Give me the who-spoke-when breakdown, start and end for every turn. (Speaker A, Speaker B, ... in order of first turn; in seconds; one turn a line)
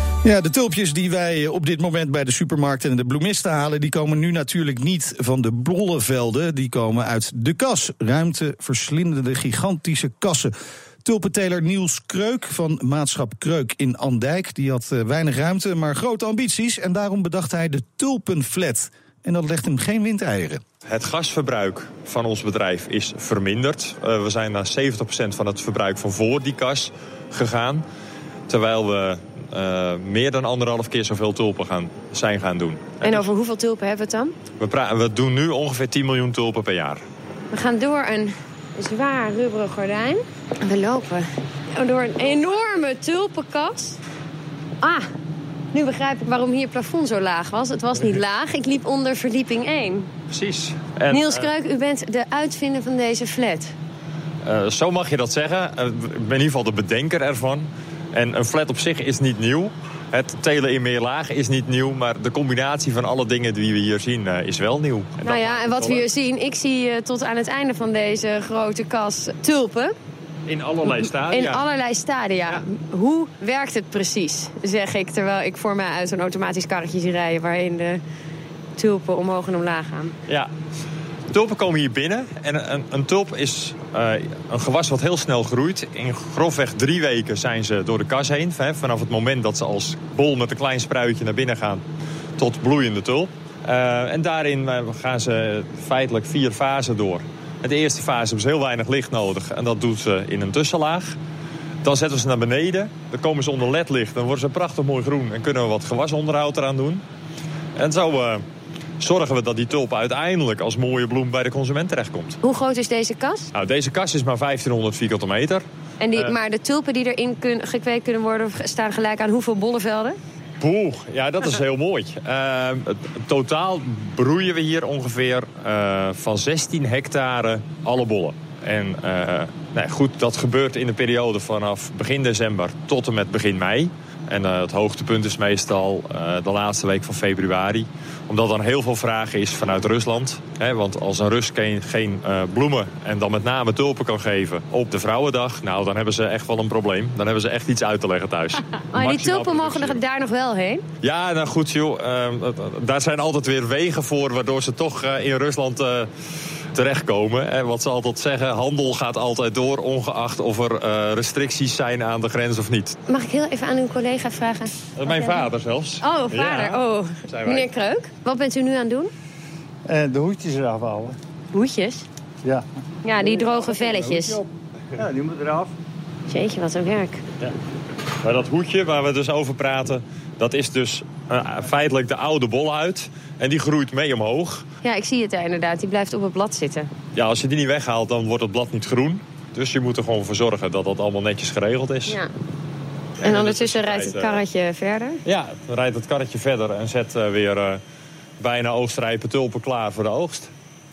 Speaker A: 0.2-10.5
Speaker A: 11.0-20.6
Speaker B: 20.9-27.8
Speaker B: 28.5-33.3
Speaker C: 33.0-34.3
Speaker B: 34.6-37.0
Speaker C: 37.5-44.0
Speaker C: 44.8-45.1
Speaker C: 45.7-50.1
Speaker B: 50.3-51.5
Speaker C: 51.1-53.7
Speaker B: 54.4-66.0
Speaker C: 65.2-69.9
Speaker B: 70.5-71.6
Speaker C: 70.9-78.0
Speaker C: 78.8-80.1
Speaker B: 81.3-91.8
Speaker B: 92.4-101.2
Speaker B: 101.8-107.0
Speaker B: 107.8-108.4
Speaker B: 109.0-112.4
Speaker C: 112.4-113.5
Speaker B: 113.5-115.6
Speaker C: 116.0-120.2
Speaker B: 120.6-150.0
Speaker C: 148.9-150.8
Speaker B: 151.0-156.1
Speaker B: 156.7-163.0
Speaker C: 163.1-165.4
Speaker B: 164.9-167.7
Speaker C: 166.0-169.1
Speaker D: 169.9-171.2
Speaker C: 171.5-172.1
Speaker D: 172.4-175.7
Speaker C: 173.0-174.4
Speaker C: 176.3-177.2
Speaker B: 178.2-184.7
Speaker C: 184.8-186.9
Speaker B: 187.1-192.2
Speaker B: 193.2-194.4
Speaker C: 193.2-195.2
Speaker B: 195.2-197.8
Speaker B: 198.4-200.5